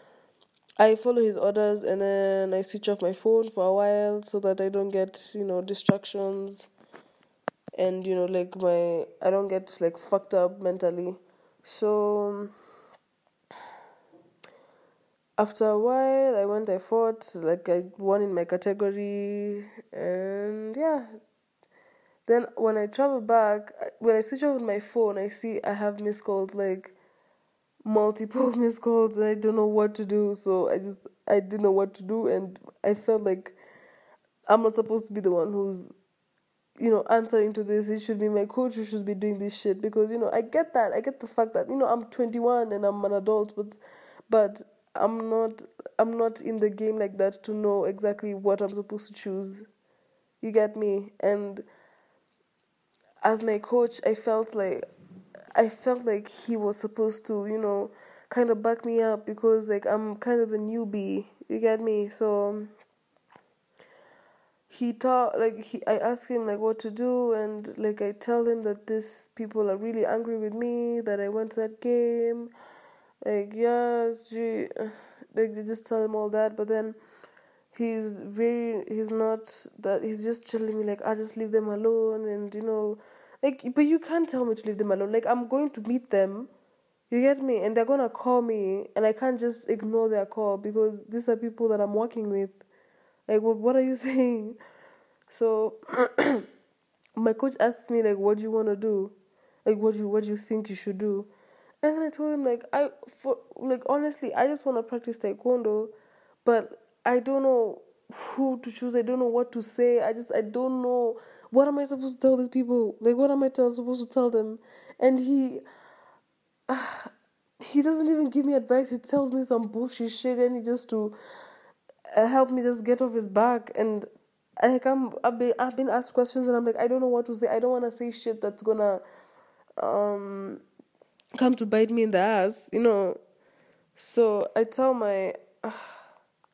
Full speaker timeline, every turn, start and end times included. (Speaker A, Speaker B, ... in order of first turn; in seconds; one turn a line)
Speaker A: 0.8-6.7
Speaker A: 7.8-12.5
Speaker A: 15.4-21.1
Speaker A: 22.3-26.9
Speaker A: 27.8-33.6
Speaker A: 34.5-35.9
Speaker A: 36.8-49.7
Speaker A: 50.4-51.7
Speaker A: 53.2-54.9
Speaker A: 55.5-62.7
Speaker A: 64.7-72.5
Speaker A: 73.2-77.0
Speaker A: 77.7-86.5
Speaker A: 87.1-92.6
Speaker A: 93.3-94.6
Speaker A: 95.3-96.4
Speaker A: 97.2-99.1
Speaker A: 99.7-101.3
Speaker A: 101.8-105.9
Speaker A: 106.5-115.6
Speaker A: 116.7-117.1
Speaker A: 117.6-121.2
Speaker A: 122.1-124.1
Speaker A: 124.6-129.0
Speaker A: 129.8-130.6
Speaker A: 131.4-133.2
Speaker A: 134.0-135.9